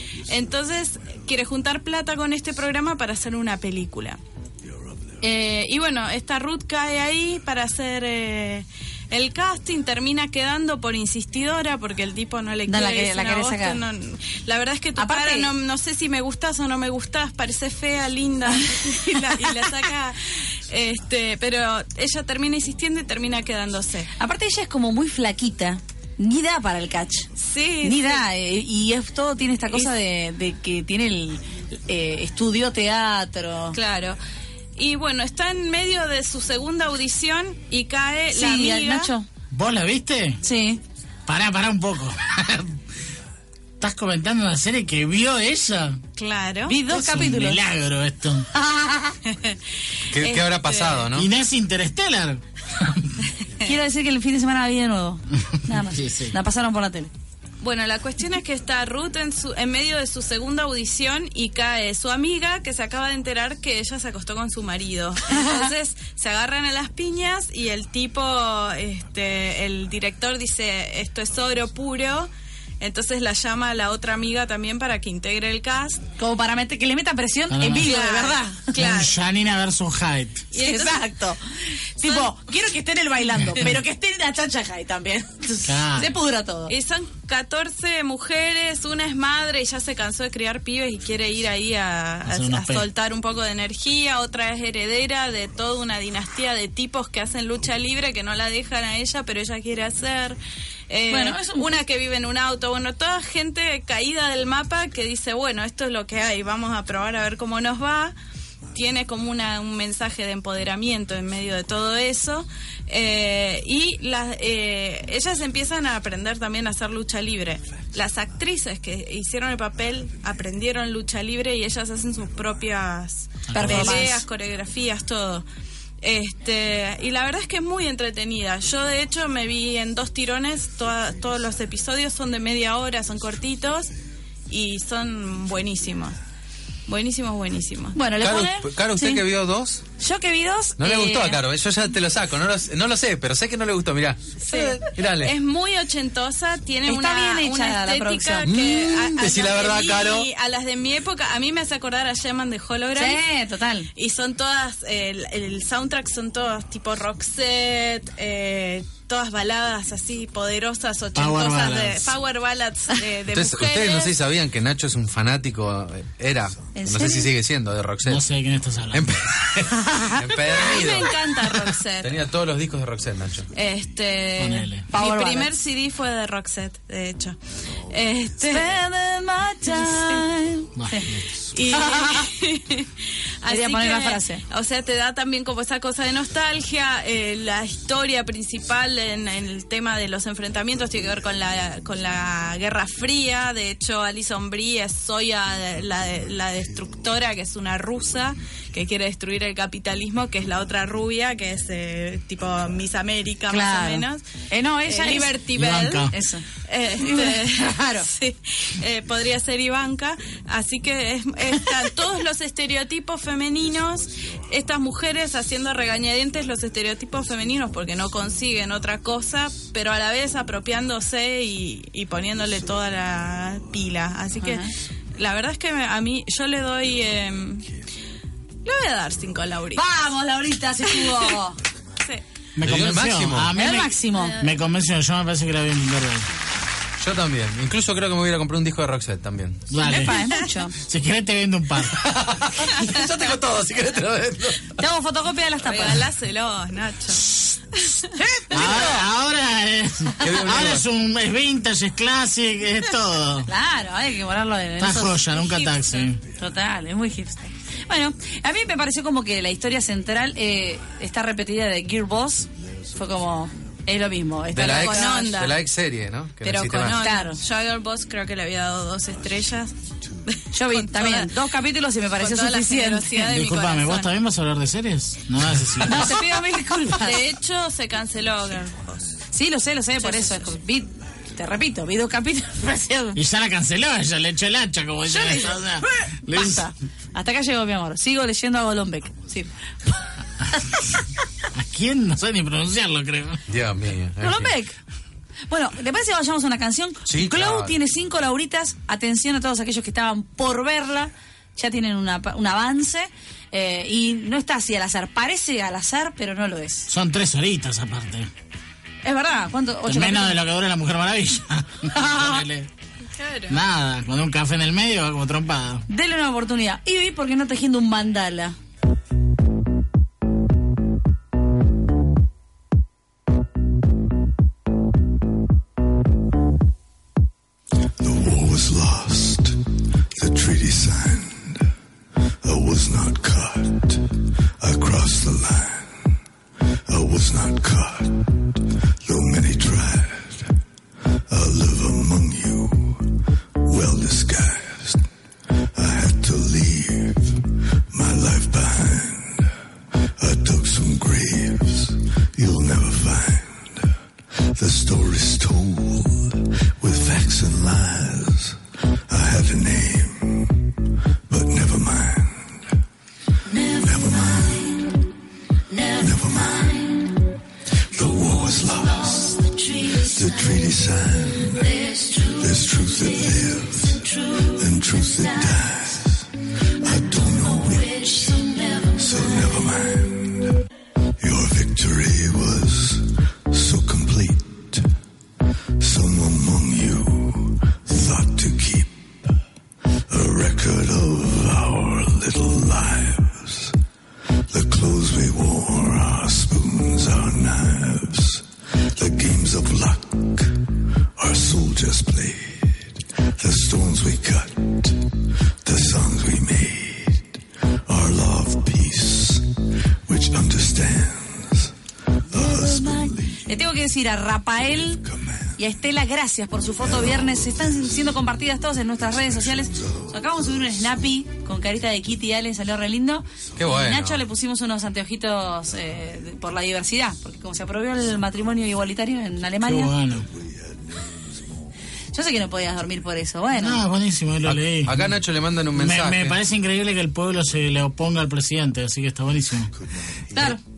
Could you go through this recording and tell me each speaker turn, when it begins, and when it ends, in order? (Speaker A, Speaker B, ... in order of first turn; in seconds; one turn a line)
Speaker A: 0.3-4.2
Speaker A: 5.2-24.1
Speaker B: 12.7-13.8
Speaker B: 15.0-15.5
Speaker B: 18.7-19.7
Speaker B: 24.2-27.3
Speaker A: 27.4-28.2
Speaker B: 27.8-33.8
Speaker A: 33.7-34.2
Speaker A: 34.8-39.1
Speaker B: 38.3-39.2
Speaker C: 39.5-40.4
Speaker B: 40.4-40.8
Speaker C: 41.3-42.8
Speaker C: 43.8-46.0
Speaker A: 46.2-46.8
Speaker B: 46.7-47.6
Speaker C: 46.9-48.5
Speaker B: 48.5-49.2
Speaker A: 49.3-49.6
Speaker D: 50.1-51.3
Speaker A: 50.1-51.1
Speaker C: 51.1-53.1
Speaker B: 53.6-57.1
Speaker C: 55.7-56.4
Speaker A: 57.6-76.0
Speaker B: 76.2-78.7
Speaker C: 77.5-77.9
Speaker A: 77.8-79.1
Speaker C: 78.7-80.4
Speaker A: 80.5-81.0
Speaker B: 80.6-81.4
Speaker B: 82.0-86.7
Speaker A: 82.0-82.3
Speaker C: 85.6-86.1
Speaker A: 86.7-100.4
Speaker C: 92.2-92.8
Speaker A: 100.9-108.1
Speaker B: 101.1-101.7
Speaker A: 108.7-125.4
Speaker C: 123.5-124.0
Speaker B: 123.5-124.2
Speaker A: 126.0-133.9
Speaker A: 134.5-136.2
Speaker A: 136.9-138.0
Speaker B: 137.9-139.2
Speaker D: 138.2-139.8
Speaker B: 140.0-141.4
Speaker D: 140.8-145.3
Speaker A: 144.4-153.2
Speaker B: 146.8-148.5
Speaker D: 148.4-150.3
Speaker B: 152.9-153.9
Speaker A: 153.9-164.1
Speaker C: 161.2-162.1
Speaker D: 163.3-168.2
Speaker B: 166.7-167.3
Speaker C: 168.0-169.2
Speaker D: 168.9-171.3
Speaker A: 170.5-172.2
Speaker D: 172.0-173.5
Speaker A: 173.5-178.8
Speaker C: 174.4-174.8
Speaker B: 174.9-175.5
Speaker B: 178.5-181.1
Speaker A: 179.7-180.2
Speaker C: 180.8-181.3
Speaker A: 181.5-182.9
Speaker B: 181.7-182.3
Speaker A: 183.4-204.2
Speaker B: 183.5-184.4
Speaker B: 203.5-205.4
Speaker A: 204.8-206.1
Speaker C: 205.5-206.1
Speaker B: 206.1-206.4
Speaker A: 206.6-227.7
Speaker B: 207.0-208.1
Speaker B: 224.4-224.7
Speaker A: 228.6-229.8
Speaker B: 229.7-231.6
Speaker A: 230.8-231.3
Speaker C: 232.6-236.3
Speaker D: 232.6-233.5
Speaker B: 233.5-234.3
Speaker A: 234.1-234.5
Speaker D: 237.0-239.7
Speaker C: 239.7-240.2
Speaker B: 239.8-240.7
Speaker C: 240.8-242.0
Speaker D: 241.9-244.8
Speaker B: 244.8-246.1
Speaker A: 245.6-248.1
Speaker B: 248.1-249.0
Speaker C: 248.5-253.5
Speaker D: 250.2-250.8
Speaker B: 253.4-255.2
Speaker C: 254.8-256.2
Speaker A: 255.4-256.1
Speaker B: 256.4-265.3
Speaker D: 264.5-267.0
Speaker A: 264.6-265.6
Speaker A: 266.4-269.7
Speaker B: 266.8-267.4
Speaker A: 270.3-271.3
Speaker B: 270.5-273.3
Speaker A: 272.2-274.1
Speaker C: 273.3-276.2
Speaker B: 275.8-277.2
Speaker A: 276.9-278.9
Speaker B: 279.3-283.2
Speaker A: 280.0-280.5
Speaker C: 283.1-286.7
Speaker B: 285.1-289.5
Speaker B: 290.6-290.8
Speaker C: 291.5-293.4
Speaker D: 293.5-294.5
Speaker B: 294.2-294.8
Speaker B: 295.5-306.9
Speaker D: 297.1-297.7
Speaker C: 306.9-308.3
Speaker B: 309.0-310.4
Speaker C: 309.9-312.7
Speaker B: 311.9-312.4
Speaker A: 313.1-313.6
Speaker C: 313.5-315.8
Speaker B: 315.9-318.6
Speaker E: 328.0-329.6
Speaker E: 330.1-331.7
Speaker E: 332.4-334.1
Speaker E: 334.6-336.1
Speaker E: 336.9-340.6
Speaker E: 341.3-345.1
Speaker E: 345.7-349.5
Speaker E: 350.2-353.9
Speaker E: 354.5-360.7
Speaker E: 361.3-362.7
Speaker E: 363.6-365.0
Speaker E: 365.8-367.2
Speaker E: 367.9-380.6
Speaker E: 381.2-384.9
Speaker E: 385.8-389.1
Speaker E: 390.1-393.8
Speaker E: 394.5-409.5
Speaker E: 410.1-411.7
Speaker E: 412.3-413.6
Speaker B: 412.3-415.0
Speaker E: 414.9-415.5
Speaker B: 415.6-429.9
Speaker E: 416.8-418.2
Speaker E: 419.0-421.0
Speaker D: 423.6-424.2
Speaker C: 429.6-430.3
Speaker E: 430.2-431.5
Speaker B: 432.1-433.8
Speaker C: 433.5-435.1
Speaker D: 434.4-436.4
Speaker C: 435.7-439.7
Speaker B: 440.3-440.6